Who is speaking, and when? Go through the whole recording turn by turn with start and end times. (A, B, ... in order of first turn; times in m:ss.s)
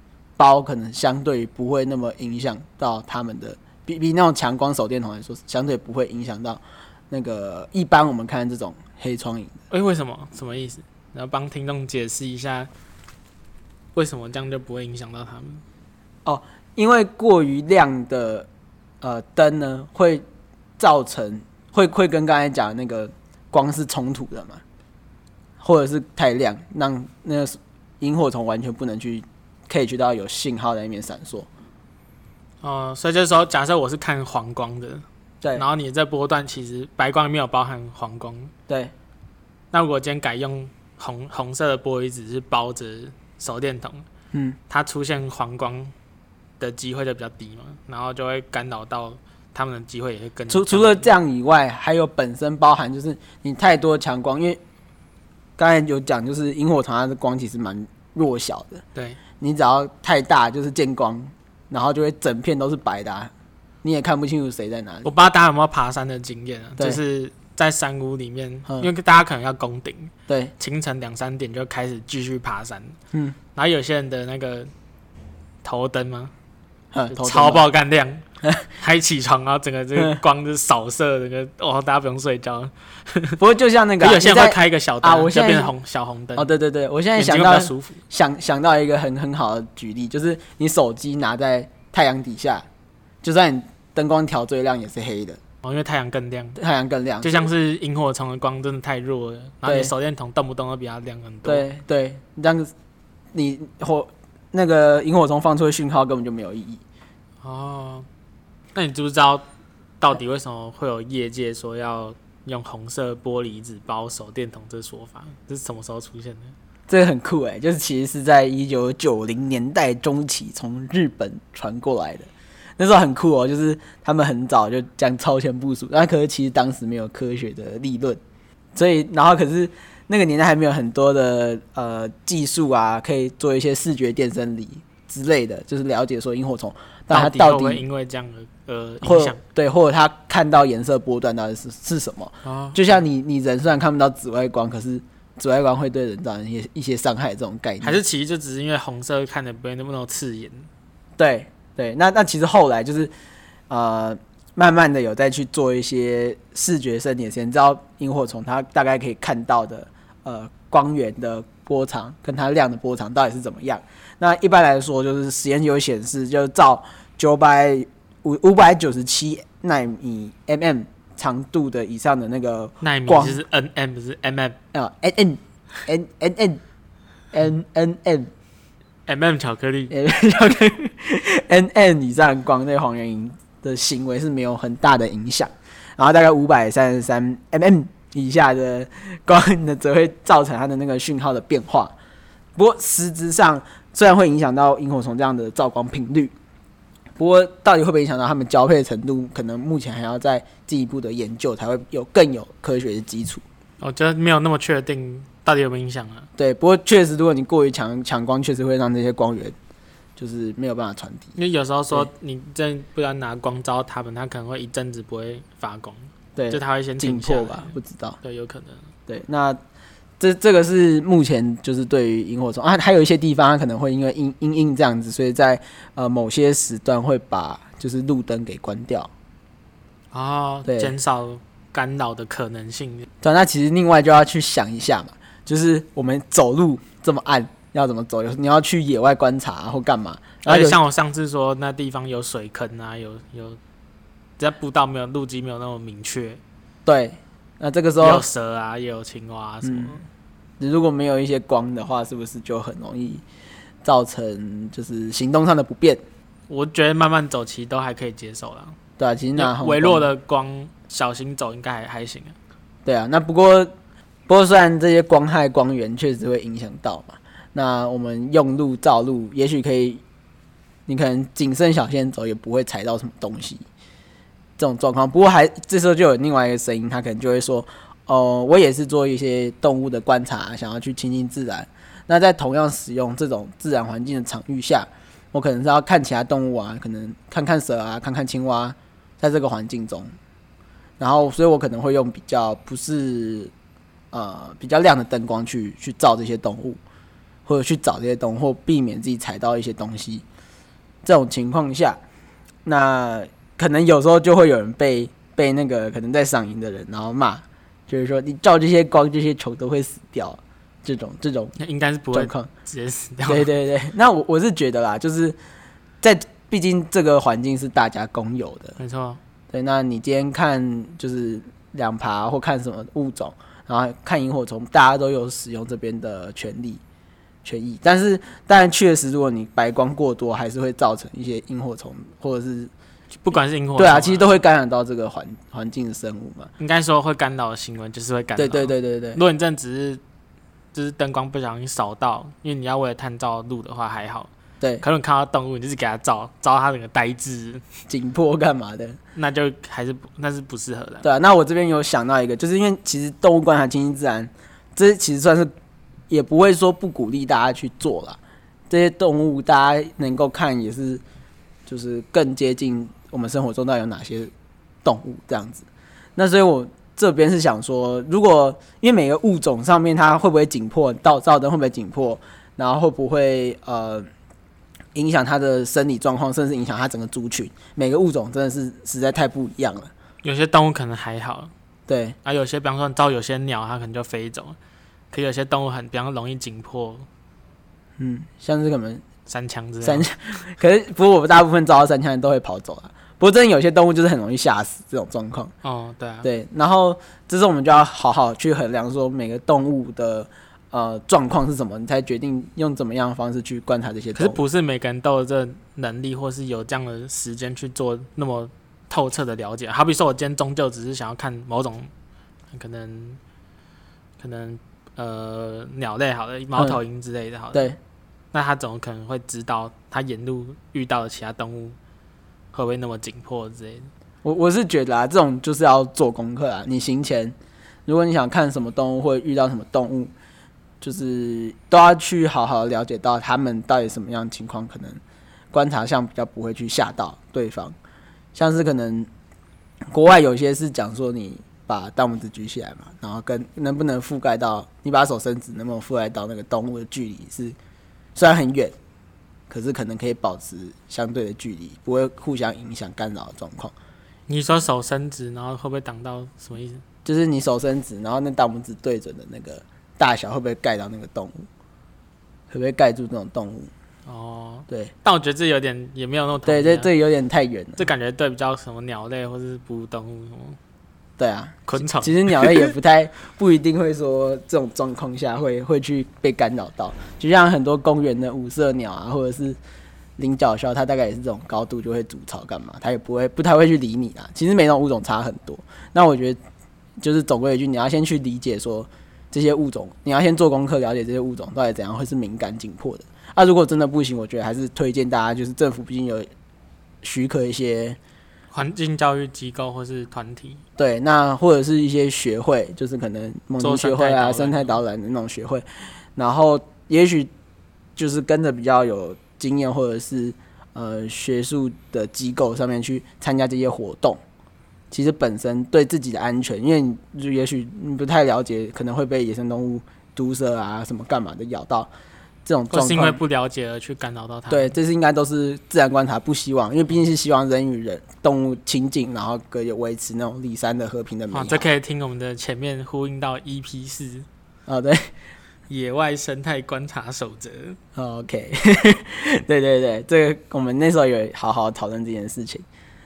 0:00.4-0:09.5 A
0:09.7-0:12.7 B
0:13.9-0:15.6 B
0:16.2-0:18.5 A
0:19.0-0:20.2 A
0:20.8-0:24.6 A
0:25.6-0:31.5 A
0:32.6-0:35.0 B
0:35.5-0:38.5 B
0:38.7-0:38.9 A
0:39.7-0:44.0 B
0:44.7-0:45.9 B
0:46.6-0:51.1 B
0:50.5-0:54.6 A
0:55.6-0:58.8 A
0:59.4-1:03.3 A
1:03.8-1:05.1 A
1:05.0-1:13.0 B
1:10.3-1:10.5 A
1:13.5-1:14.7 B
1:15.6-1:16.3 B
1:16.9-1:17.6 A
1:17.1-1:18.2 B
1:18.8-1:23.4 B
1:23.4-1:25.7 A
1:24.0-1:26.5 B
1:26.4-1:32.6 A
1:27.1-1:28.0 B
1:33.2-1:35.4 A
1:35.6-1:36.6 B
1:36.6-1:37.5 A
1:37.2-1:41.6 B
1:39.6-1:39.9 A
1:41.4-1:42.7 A
1:43.3-1:46.8 A
1:47.4-1:48.0 B
1:48.7-1:49.4 B
1:50.0-1:56.5 B
1:56.9-2:08.2 A
2:08.7-2:17.8 A
2:17.1-2:19.4 B
2:19.0-2:28.0 A
2:22.4-2:22.9 B
2:27.8-2:30.7 B
2:31.2-2:33.1 A
2:33.7-2:53.4 A
2:52.8-2:54.6 B
2:54.7-2:56.6 A
2:57.3-2:58.3 A
2:59.1-2:59.9 B
2:59.9-3:11.9 A
3:12.6-3:16.3 A
3:17.2-3:23.4 A
3:23.8-3:26.3 B
3:26.4-3:29.6 A
3:30.2-3:31.4 A
3:31.4-3:38.9 B
3:36.4-3:38.2 A
3:39.1-3:39.6 A
3:40.2-3:49.1 A
3:50.1-3:53.1 B
3:50.6-3:50.9 A
3:53.2-4:00.8 A
4:00.4-4:03.6 B
4:04.4-4:06.4 B
4:06.8-4:08.2 A
4:08.0-4:10.0 B
4:09.6-4:10.0 A
4:10.6-4:13.2 A
4:13.8-4:16.0 A
4:16.5-4:18.8 B
4:19.0-4:20.1 A
4:19.4-4:22.3 B
4:22.8-4:23.7 A
4:24.3-4:30.0 A
4:30.9-4:33.6 A
4:34.6-4:50.1 A
4:51.0-4:53.5 A
4:54.1-4:56.8 A
4:57.4-5:00.2 A
5:01.0-5:02.0 A
5:02.6-5:11.5 A
5:11.6-5:13.5 B
5:12.1-5:12.5 A
5:13.3-5:15.4 A
5:16.0-5:18.8 A
5:18.8-5:19.2 B
5:19.5-5:26.8 A
5:27.4-5:32.7 A
5:33.2-5:34.2 B
5:33.8-5:36.5 A
5:36.6-5:40.0 B
5:38.4-5:39.2 A
5:40.7-5:44.3 B
5:44.8-5:47.6 B
5:47.9-5:49.0 A
5:49.1-5:51.1 B
5:51.0-5:55.5 A
5:56.1-5:58.2 A
5:58.7-6:01.0 A
6:01.6-6:04.3 A
6:04.8-6:14.1 A
6:14.9-6:19.9 A
6:20.2-6:21.5 B
6:21.9-6:22.2 A
6:22.2-6:24.6 B
6:25.1-6:27.1 B
6:28.0-6:29.0 A
6:29.3-6:30.1 B
6:29.8-6:35.5 A
6:35.6-6:36.3 B
6:36.2-6:44.4 A
6:44.1-6:51.9 B
6:52.5-6:53.2 B
6:54.2-6:57.7 B
6:58.3-7:01.8 B
7:02.5-7:03.9 B
7:04.2-7:07.4 A
7:07.9-7:10.1 A
7:10.8-7:15.0 A
7:15.5-7:17.8 A
7:18.3-7:19.1 A
7:19.9-7:27.6 A
7:28.1-7:28.7 A
7:29.5-7:33.7 A
7:34.3-7:36.8 B
7:37.0-7:41.4 A
7:42.5-7:43.7 A
7:44.0-7:46.9 B
7:46.4-7:47.9 A
7:47.8-7:50.6 B
7:51.2-7:59.6 A
7:51.7-7:52.7 B
8:00.2-8:06.4 A
8:07.0-8:16.3 A
8:17.0-8:18.0 A
8:18.5-8:20.6 B
8:20.8-8:25.6 A
8:23.6-8:24.8 B
8:26.2-8:27.3 A
8:28.0-8:34.2 A
8:34.9-8:41.9 A
8:42.4-8:43.2 A
8:42.7-8:44.7 B
8:44.5-8:51.6 A
8:51.3-8:54.2 B
8:54.7-8:55.1 A
8:55.7-8:57.8 B
8:57.9-9:02.6 A